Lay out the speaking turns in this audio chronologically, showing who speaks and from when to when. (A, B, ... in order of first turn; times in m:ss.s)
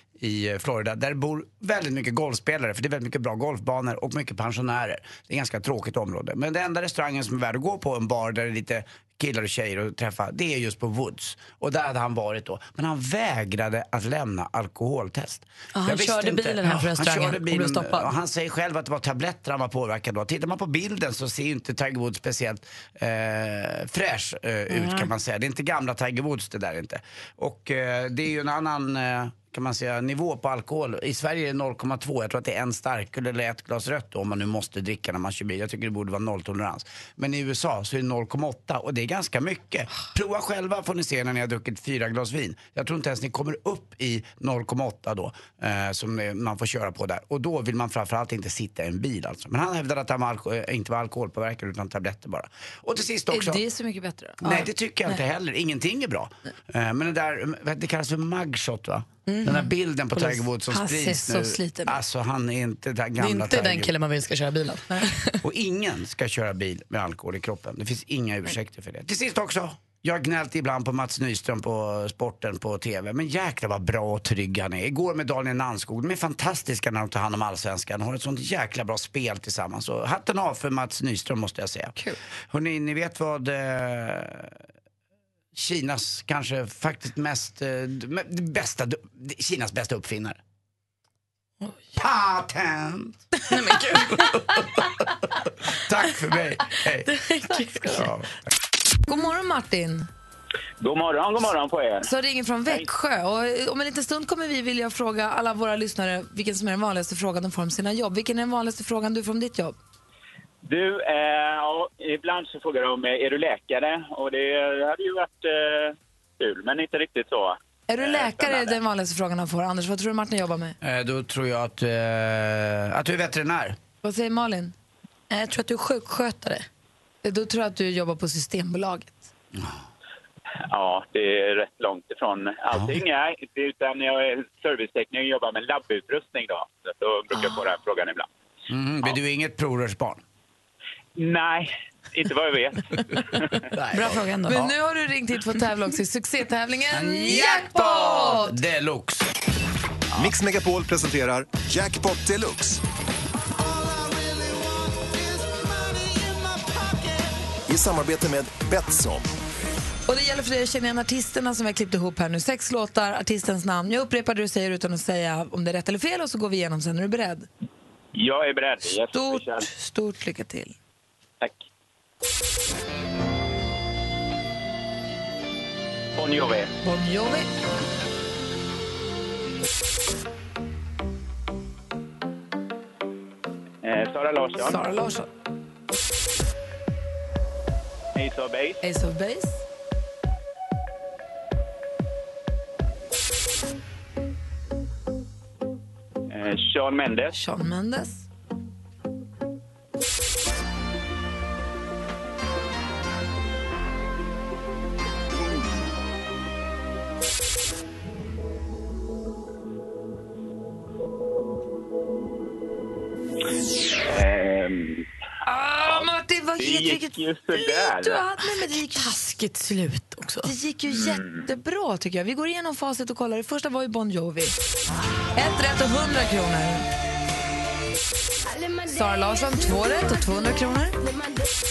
0:00.2-0:53.6 A
0:15.7-0:18.1 B
0:24.8-0:25.1 B
0:53.3-0:55.2 C
0:54.4-1:03.9 A
0:59.3-0:59.7 B
1:00.2-1:02.0 C
1:03.2-1:05.3 B
1:05.4-1:22.0 A
1:22.5-1:24.6 A
1:25.5-1:30.4 A
1:32.0-1:33.2 A
1:33.5-1:34.5 B
1:33.9-1:34.8 A
1:35.7-1:37.1 A
1:37.1-1:38.1 B
1:37.5-1:38.0 C
1:37.8-1:38.3 A
1:39.1-1:40.1 C
1:40.8-1:42.1 D
1:42.0-1:49.8 C
1:50.6-1:58.8 D
1:57.9-2:00.8 C
2:00.8-2:03.8 A
2:04.0-2:04.7 C
2:05.3-2:06.6 B
2:07.2-2:09.3 C
2:09.5-2:09.8 A
2:10.7-2:18.3 D
2:12.7-2:13.0 A
2:18.7-2:20.2 A
2:21.2-2:22.8 D
2:23.7-2:24.7 A
2:23.9-2:24.6 B
2:24.5-2:28.6 C
2:26.9-2:29.3 A
2:30.2-2:32.8 E
2:33.5-2:39.3 E
2:40.1-2:47.5 C
2:48.1-2:49.7 D
2:49.1-2:50.7 C
2:56.2-2:56.7 D
2:56.8-2:57.5 C
3:03.8-3:04.9 D
3:04.6-3:05.3 C
3:08.1-3:08.8 D
3:08.8-3:09.6 C
3:16.3-3:17.3 D
3:17.3-3:18.2 C
3:34.1-3:35.0 D
3:35.4-3:39.2 C
3:35.8-3:38.2 D
3:38.9-3:40.5 B
3:40.4-3:44.5 C
3:40.9-3:41.5 D
3:45.4-3:46.9 C
3:48.8-3:51.0 C